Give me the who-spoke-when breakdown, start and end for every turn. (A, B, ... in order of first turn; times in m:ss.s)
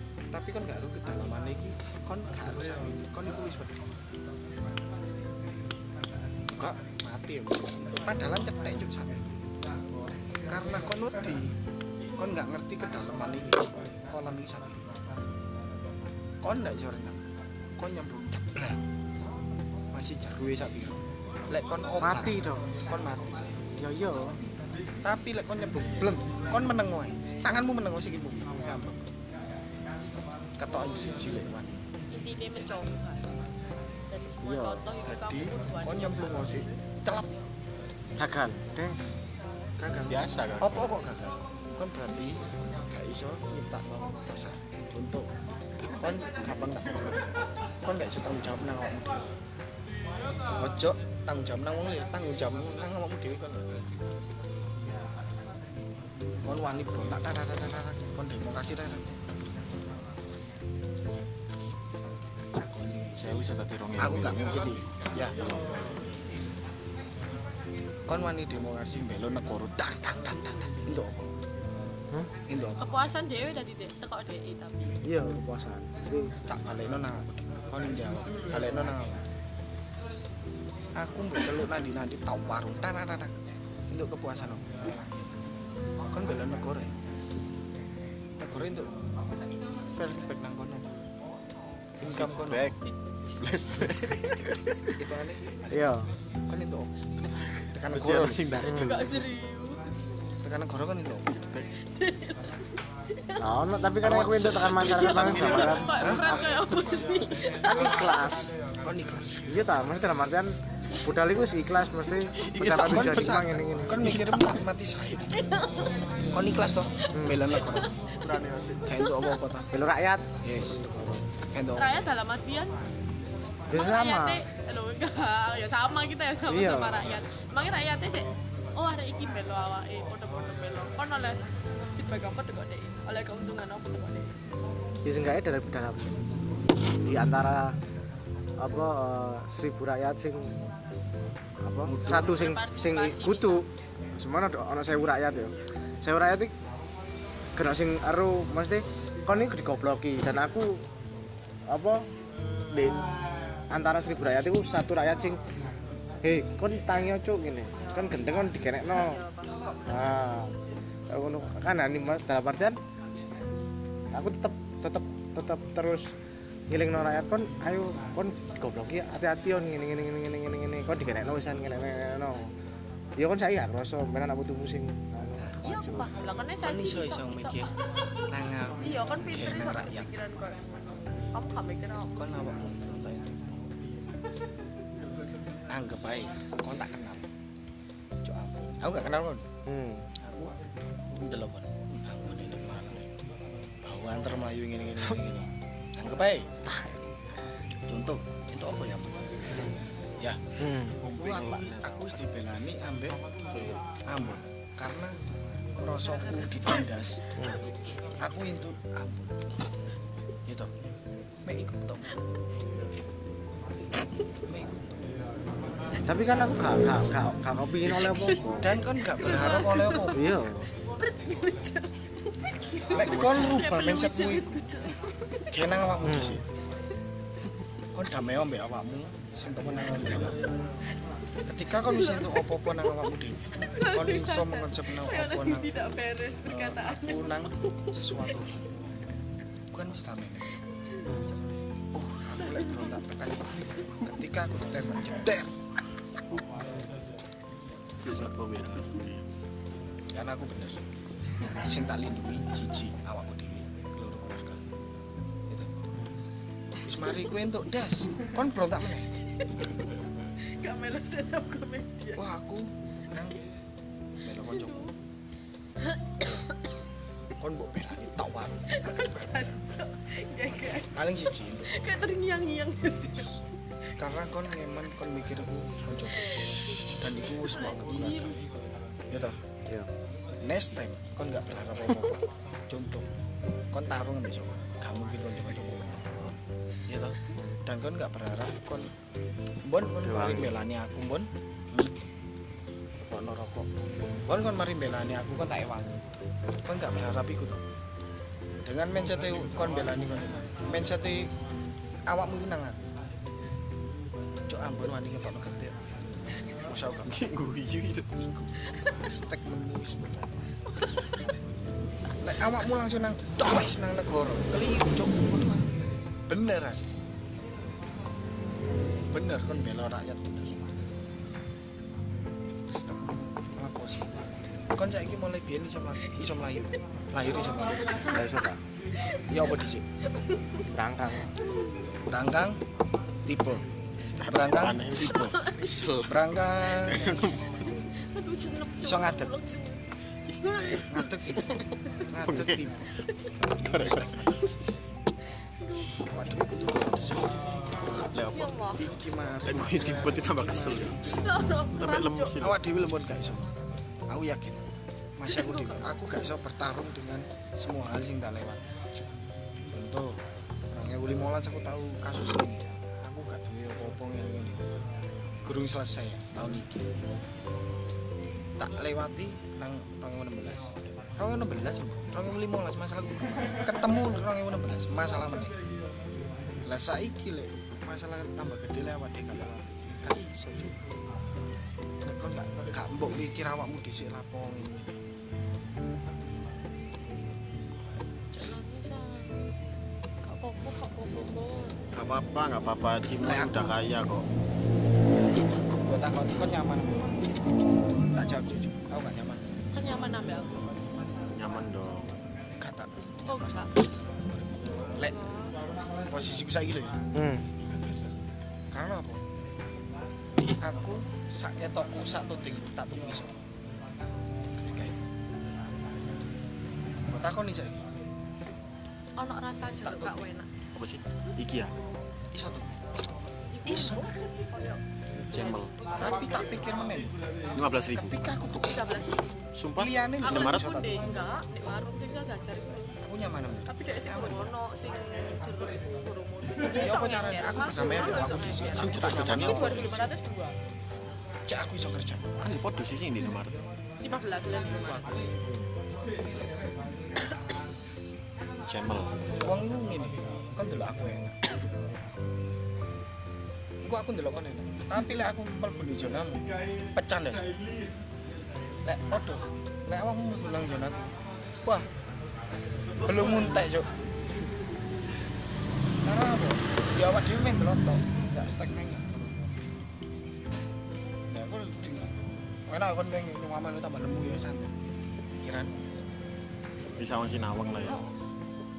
0:00.3-0:04.0 A
0:06.5-0:09.3 A
0:10.4-0:11.6 A
0:12.2-0:14.9 A
0:16.4-0:18.8 A
0:19.9-0:23.4 A
0:22.0-0:22.7 B
0:23.8-0:24.4 B
0:25.0-0:29.1 A
0:30.6-0:31.8 A
0:32.2-0:33.3 C
0:34.1-0:36.6 C
0:34.4-0:37.3 A
0:38.2-0:39.0 B
0:39.8-0:45.3 A
0:40.1-0:41.0 D
0:45.8-0:47.3 A
0:47.8-0:49.3 A
0:50.5-0:54.0 A
0:56.4-0:59.1 A
1:02.5-1:03.4 A
1:03.2-1:06.0 D
1:04.0-1:05.4 A
1:08.1-1:11.3 A
1:12.5-1:12.9 A
1:12.8-1:15.0 C
1:15.0-1:16.3 B
1:16.4-1:19.2 A
1:21.0-1:23.3 A
1:23.9-1:24.6 A
1:26.1-1:26.9 A
1:28.4-1:28.9 A
1:29.9-1:30.9 A
1:32.0-1:32.7 A
1:32.2-1:32.8 D
1:33.3-1:34.9 D
1:35.0-1:36.0 A
1:35.7-1:36.1 B
1:36.5-1:37.0 A
1:37.7-1:38.4 A
1:37.9-1:39.2 D
1:38.6-1:40.1 C
1:38.6-1:39.0 B
1:40.4-1:41.5 A
1:41.3-1:41.7 D
1:41.7-1:43.4 C
1:43.4-1:45.9 B
1:44.0-1:47.2 D
1:44.8-1:48.3 C
1:45.9-1:46.4 A
1:47.6-1:48.5 B
1:48.8-1:49.4 A
1:49.5-1:50.5 B
1:51.0-1:54.2 B
1:52.3-1:53.4 D
1:52.4-1:55.3 A
1:55.3-1:55.9 C
1:56.3-1:57.9 A
1:57.1-1:59.4 C
1:57.1-1:57.4 B
1:58.2-1:58.7 B
1:58.8-1:59.7 A
1:59.7-2:01.2 B
2:00.4-2:00.8 A
2:01.5-2:02.0 A
2:01.8-2:02.7 C
2:03.7-2:11.4 C
2:03.7-2:04.4 B
2:06.5-2:07.1 B
2:12.0-2:14.3 C
2:15.0-2:16.2 B
2:17.0-2:17.7 B
2:18.6-2:20.6 B
2:21.6-2:26.5 B
2:21.8-2:22.3 A
2:22.0-2:23.6 C
2:27.6-2:30.8 B
2:31.7-2:32.1 B
2:32.7-2:33.0 D
2:33.7-2:35.4 B
2:36.2-2:39.2 B
2:37.7-2:40.1 C
2:39.8-2:40.5 B
2:41.1-2:42.8 B
2:44.1-2:46.1 B
2:46.7-2:52.5 B
2:53.2-2:56.1 B
2:55.6-2:57.7 C
2:56.6-2:57.7 A
2:58.3-3:00.1 A
2:58.8-3:00.6 C
3:01.3-3:02.2 C
3:02.1-3:03.4 A
3:05.7-3:07.3 A
3:08.2-3:09.5 A
3:09.6-3:10.1 B
3:10.2-3:13.1 A
3:13.8-3:16.5 A
3:17.9-3:19.3 A
3:20.2-3:23.2 A
3:20.6-3:21.0 B
3:21.0-3:22.2 D
3:23.5-3:23.8 D
3:24.0-3:25.2 A
3:25.8-3:27.2 A
3:26.1-3:26.7 C
3:28.2-3:29.4 A
3:30.4-3:30.7 A
3:31.4-3:32.2 A
3:34.5-3:34.9 A
3:36.0-3:38.7 B
3:37.9-3:38.4 D
3:38.6-3:40.2 A
3:39.1-3:40.3 C
3:40.1-3:40.6 B
3:41.0-3:45.7 C
3:42.9-3:44.6 A
3:43.0-3:43.4 D
3:45.5-3:46.4 A
3:46.0-3:46.4 B
3:47.9-3:50.4 A
3:51.4-3:55.7 A
3:51.8-3:53.2 C
3:53.7-3:58.3 C
3:56.4-3:58.6 A
3:59.7-4:00.5 A
4:01.9-4:05.5 A
4:02.3-4:03.0 C
4:08.0-4:09.2 D
4:08.0-4:08.4 A
4:10.1-4:10.8 A
4:11.4-4:14.7 A
4:16.8-4:19.1 A
4:19.3-4:19.7 C
4:20.4-4:22.2 C
4:22.2-4:23.4 A
4:24.2-4:24.9 A
4:24.5-4:24.9 C
4:25.8-4:26.2 C
4:27.4-4:29.6 A
4:28.7-4:33.4 C
4:30.5-4:31.7 A
4:34.0-4:36.4 A
4:36.1-4:38.4 C
4:36.9-4:38.4 A
4:39.1-4:39.4 A
4:40.4-4:43.0 A
4:43.7-4:46.2 A
4:46.9-4:48.9 A
4:49.6-4:52.0 A
4:50.0-4:50.5 B
4:53.0-4:53.7 A
4:54.3-4:56.1 A
4:56.6-4:57.6 A
4:58.6-5:01.3 A
5:02.0-5:02.8 A
5:04.5-5:06.0 A
5:06.6-5:07.3 A
5:07.0-5:08.1 D
5:08.1-5:10.7 A
5:10.6-5:11.2 C
5:12.2-5:15.4 A
5:16.3-5:17.0 A
5:18.9-5:20.6 A
5:22.5-5:28.1 A
5:27.5-5:28.2 C
5:28.1-5:28.6 B
5:28.9-5:30.6 C
5:29.3-5:29.8 A
5:30.7-5:31.3 B
5:31.4-5:31.9 C
5:32.0-5:32.6 A
5:33.2-5:33.6 A
5:34.0-5:37.7 D
5:34.2-5:35.4 A
5:35.0-5:35.9 C
5:36.0-5:37.4 A
5:37.6-5:39.9 C
5:38.8-5:39.3 A
5:40.3-5:40.8 D
5:40.9-5:41.4 A
5:42.1-5:42.9 A
5:42.2-5:42.6 D
5:43.6-5:44.3 A
5:43.6-5:44.5 D
5:45.6-5:46.1 C
5:46.0-5:47.3 A
5:48.1-5:48.6 D
5:48.3-5:48.8 C
5:48.8-5:51.7 A
5:49.4-5:52.6 D
5:51.1-5:52.4 C
5:52.4-5:53.5 A
5:54.1-5:58.7 A
5:55.2-5:56.2 C
5:59.7-6:00.2 A
6:00.7-6:04.6 A
6:05.4-6:06.9 A
6:08.6-6:15.5 A
6:16.6-6:20.8 A
6:22.0-6:24.8 A
6:28.3-6:29.3 C
6:30.2-6:31.8 C
6:31.9-6:34.2 D
6:33.1-6:33.8 A
6:35.6-6:39.6 A
6:39.7-6:40.7 C
6:41.3-6:42.2 D
6:42.6-6:45.1 A
6:43.3-6:43.7 C
6:44.8-6:45.5 C
6:46.1-6:46.9 A
6:47.1-6:47.4 B
6:48.7-6:49.2 A
6:50.6-6:53.3 A
6:54.6-6:55.0 A
6:57.1-6:57.9 A
6:59.2-7:00.5 C
6:59.8-7:00.3 A
7:00.7-7:01.7 D
7:02.3-7:02.8 A
7:03.5-7:06.3 C
7:03.6-7:04.0 A
7:05.2-7:05.7 D
7:06.0-7:07.2 A
7:07.6-7:08.2 D
7:07.9-7:09.0 A
7:08.6-7:09.3 C
7:09.6-7:10.8 D
7:09.8-7:11.1 A
7:10.2-7:12.9 C
7:13.0-7:14.6 A
7:13.7-7:20.5 C
7:16.7-7:20.1 A
7:18.7-7:20.1 D
7:21.5-7:22.6 A
7:22.4-7:23.6 D
7:24.0-7:25.2 C
7:24.8-7:25.7 A
7:28.7-7:29.2 D
7:29.4-7:31.4 A
7:33.8-7:37.5 A
7:38.8-7:41.9 A
7:43.0-7:43.9 A
7:46.0-7:49.2 A
7:51.3-7:54.8 A
7:55.4-7:55.8 A
7:57.0-7:58.0 D